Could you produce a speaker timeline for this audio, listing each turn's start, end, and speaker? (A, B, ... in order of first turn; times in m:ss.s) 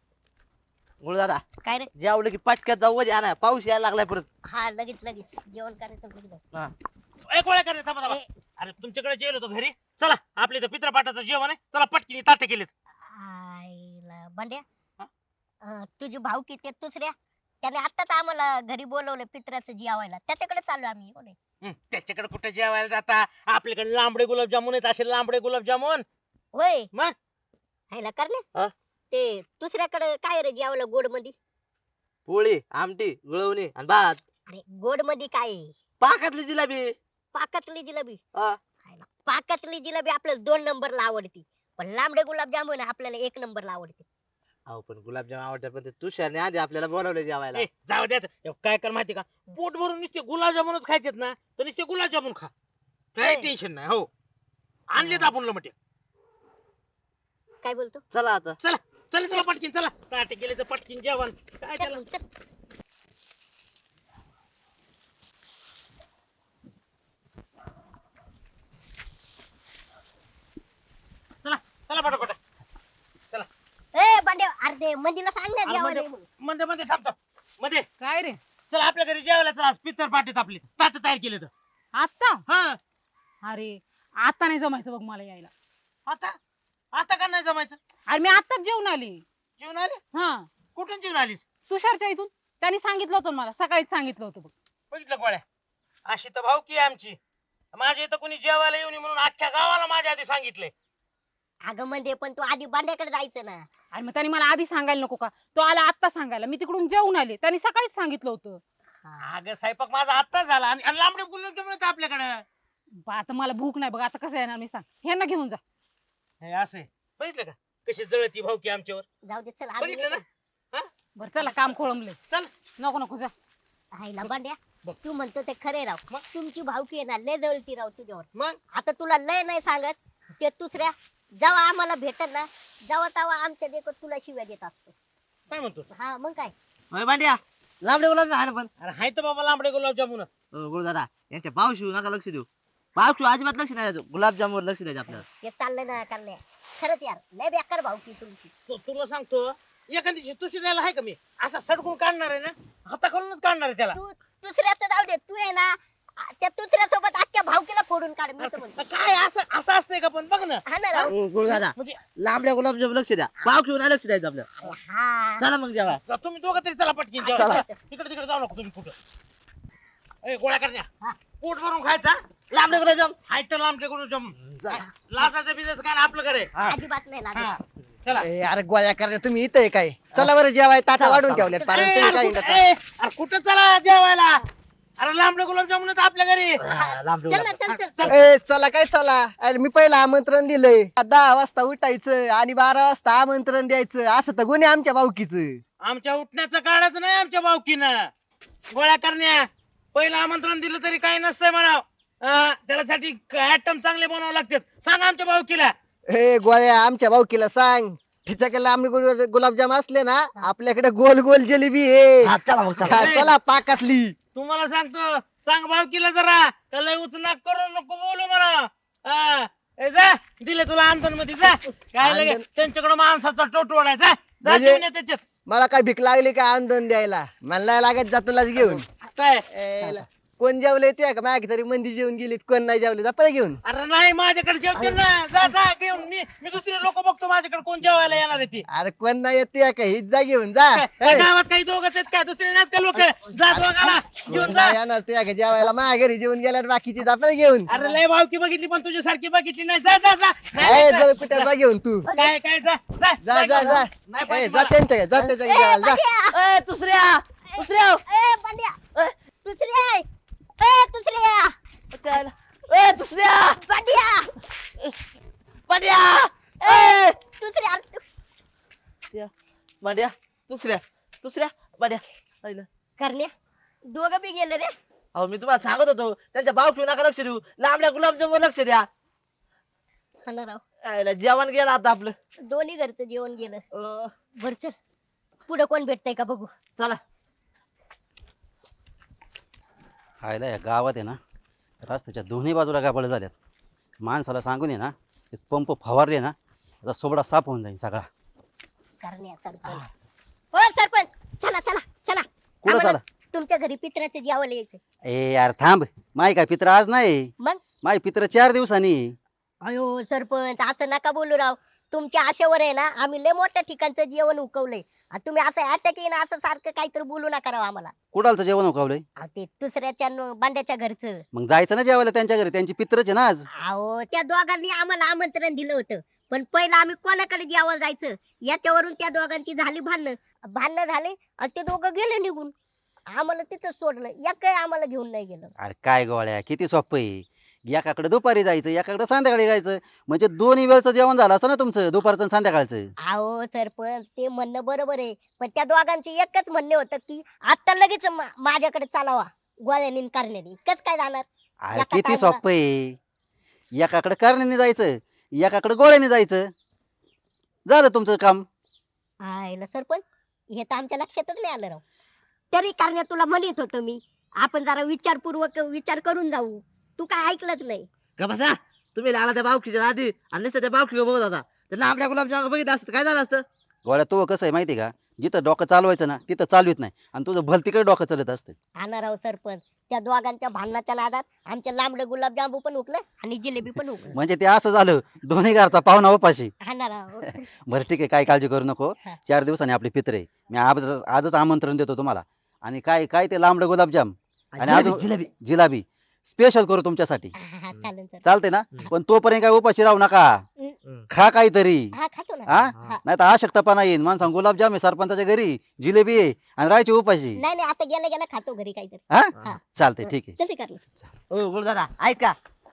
0:01.0-0:01.4 A
0:02.0-0:04.2 A
0:04.5-0:06.4 B
0:07.3-0:12.7 C
0:13.1-0:14.6 B
0:15.6-0:21.4 B
0:21.6-0:26.0 C
0:26.5-0:26.9 B
0:27.9-0:28.4 B
0:29.1-0:31.3 B
0:32.3-0:34.2 A
0:34.5-0:35.7 B
0:36.0-0:37.0 A
0:37.3-0:38.2 B
0:38.8-0:44.1 B
0:44.7-0:47.6 A
0:47.5-0:52.5 C
0:53.2-0:54.1 C
0:53.2-0:53.5 B
0:54.9-0:55.7 C
0:55.0-0:55.3 B
0:57.6-0:58.0 B
0:58.1-0:58.6 A
0:58.6-1:02.0 C
1:01.7-1:02.2 B
1:11.4-1:12.4 C
1:13.9-1:16.2 B
1:15.6-1:17.8 C
1:18.0-1:18.4 D
1:18.7-1:21.5 C
1:22.0-1:22.4 D
1:22.5-1:22.8 C
1:23.4-1:25.5 D
1:26.1-1:26.3 C
1:26.9-1:27.8 C
1:28.1-1:29.2 D
1:29.6-1:30.0 C
1:30.2-1:30.5 D
1:30.7-1:31.5 C
1:31.7-1:34.5 D
1:34.9-1:35.4 C
1:36.1-1:37.2 C
1:37.7-1:40.7 C
1:41.6-1:43.6 B
1:43.9-1:48.6 D
1:49.2-1:52.4 C
1:53.1-1:55.6 D
1:56.4-1:59.0 C
1:59.2-2:00.2 B
1:59.8-2:00.9 C
2:01.2-2:02.2 D
2:02.8-2:03.3 D
2:03.9-2:14.9 B
2:15.5-2:15.8 C
2:15.9-2:16.5 B
2:16.9-2:18.7 A
2:18.8-2:20.3 C
2:20.5-2:25.2 A
2:25.3-2:28.5 B
2:28.7-2:34.0 C
2:33.9-2:38.8 B
2:38.4-2:40.6 C
2:40.7-2:41.2 B
2:41.0-2:44.7 A
2:41.7-2:42.0 C
2:44.6-2:45.4 B
2:45.4-2:46.0 A
2:45.9-2:48.9 C
2:47.2-2:47.8 B
2:47.4-2:47.6 A
2:50.2-2:50.9 C
2:51.4-2:52.2 C
2:52.5-2:53.1 A
2:53.3-2:56.5 C
2:54.4-2:54.8 A
2:56.6-2:57.5 B
2:57.3-2:58.2 C
2:58.2-3:02.6 E
3:01.0-3:01.6 A
3:01.5-3:02.0 B
3:01.7-3:04.4 C
3:05.0-3:06.6 C
3:06.6-3:07.6 A
3:06.7-3:08.1 B
3:07.7-3:08.2 C
3:08.0-3:15.6 E
3:15.8-3:18.1 C
3:18.7-3:25.7 C
3:26.1-3:34.1 E
3:32.2-3:33.2 A
3:32.9-3:33.3 C
3:34.3-3:45.2 C
3:42.0-3:42.4 E
3:44.4-3:44.8 E
3:45.5-3:48.8 E
3:48.6-3:49.4 C
3:49.5-3:53.6 E
3:53.6-3:58.6 C
3:58.7-4:01.3 E
4:00.7-4:04.8 C
4:03.5-4:07.7 E
4:07.7-4:11.5 C
4:10.6-4:12.1 E
4:12.1-4:12.3 B
4:12.1-4:14.7 C
4:13.2-4:16.0 E
4:15.4-4:16.4 B
4:16.3-4:18.0 A
4:17.5-4:18.8 B
4:19.4-4:20.1 B
4:20.6-4:21.5 B
4:21.9-4:23.6 A
4:23.6-4:24.3 B
4:25.7-4:27.2 A
4:26.6-4:28.0 B
4:29.8-4:32.7 A
4:33.0-4:33.3 B
4:33.9-4:34.7 B
4:35.1-4:38.8 A
4:40.2-4:40.6 B
4:40.8-4:42.2 A
4:42.4-4:43.6 B
4:43.7-4:44.1 A
4:44.4-4:44.7 B
4:45.5-4:46.5 B
4:50.2-4:51.2 F
4:51.8-4:53.3 F
4:54.0-4:58.1 F
4:59.0-4:59.9 B
5:00.5-5:04.8 B
5:02.6-5:03.0 F
5:05.0-5:09.2 F
5:09.6-5:17.9 B
5:18.1-5:19.0 F
5:19.2-5:21.2 B
5:21.3-5:23.4 F
5:23.6-5:32.5 B
5:33.1-5:35.5 B
5:35.6-5:42.9 F
5:43.1-5:52.4 B
5:51.6-5:53.0 F
5:53.8-5:56.5 F
5:57.7-5:58.4 F
5:59.2-6:01.8 B
6:02.5-6:07.9 B
6:08.2-6:13.4 A
6:13.8-6:18.6 F
6:18.8-6:24.2 B
6:24.1-6:26.5 F
6:26.6-6:27.4 B
6:27.2-6:37.3 F
6:34.5-6:35.3 A
6:37.4-6:38.2 B
6:38.2-6:40.4 F
6:41.1-6:41.9 F
6:41.9-6:43.0 B
6:42.5-6:47.4 F
6:47.4-6:50.8 B
6:49.1-6:50.4 F
6:51.3-6:52.3 A